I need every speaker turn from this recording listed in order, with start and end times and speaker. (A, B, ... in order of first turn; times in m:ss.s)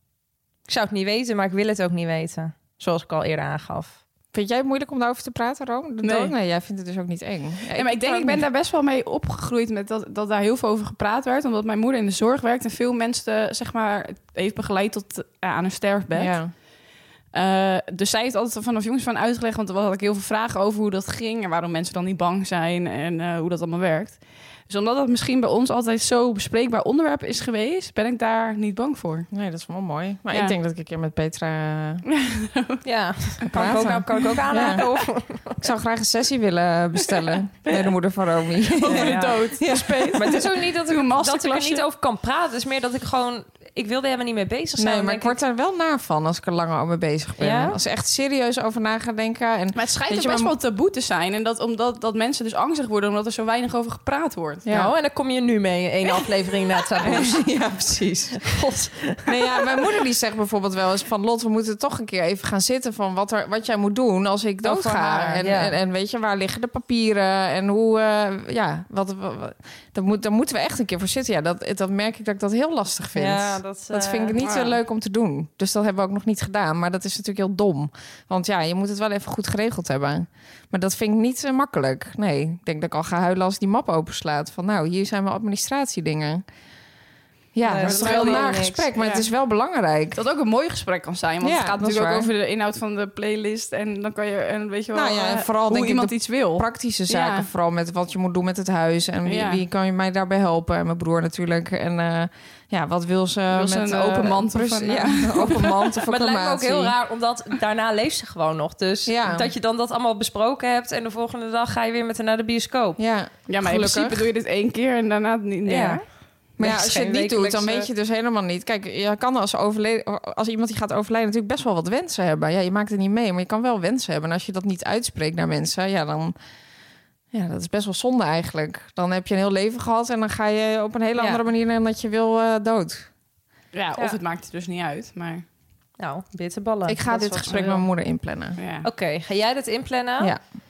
0:00.7-0:04.0 A
0:04.3-0:08.4 B
0:06.0-0:06.3 C
0:07.7-0:16.4 C
0:16.1-0:16.5 B
0:17.3-0:29.3 C
0:29.3-0:32.0 B
0:30.3-0:30.6 C
0:32.1-0:32.8 C
0:32.8-0:35.6 A
0:33.5-0:34.8 B
0:35.6-0:40.1 B
0:38.8-0:41.8 C
0:38.9-0:39.4 A
0:40.1-0:45.4 A
0:44.8-0:50.5 B
0:47.4-0:47.8 A
0:49.7-0:54.7 C
0:54.6-0:54.9 B
0:54.7-0:57.4 A
0:57.0-0:58.4 B
0:58.4-0:59.8 A
0:59.3-1:26.4 B
1:04.6-1:05.7 A
1:13.1-1:14.4 A
1:14.4-1:14.7 C
1:27.5-1:30.2 B
1:27.6-1:28.9 A
1:27.8-1:29.3 C
1:30.2-1:37.5 C
1:31.4-1:32.3 B
1:34.9-1:46.9 B
1:39.2-1:39.6 C
1:43.5-1:45.8 C
1:46.1-1:53.0 A
1:49.0-1:49.5 B
1:53.0-1:54.3 B
1:53.5-1:56.0 C
1:55.7-1:56.0 A
1:56.6-2:06.3 B
1:56.6-1:57.9 A
2:07.3-2:13.1 B
2:13.7-2:15.4 C
2:16.0-2:17.8 A
2:16.9-2:18.6 B
2:18.6-2:18.8 C
2:18.8-2:20.3 A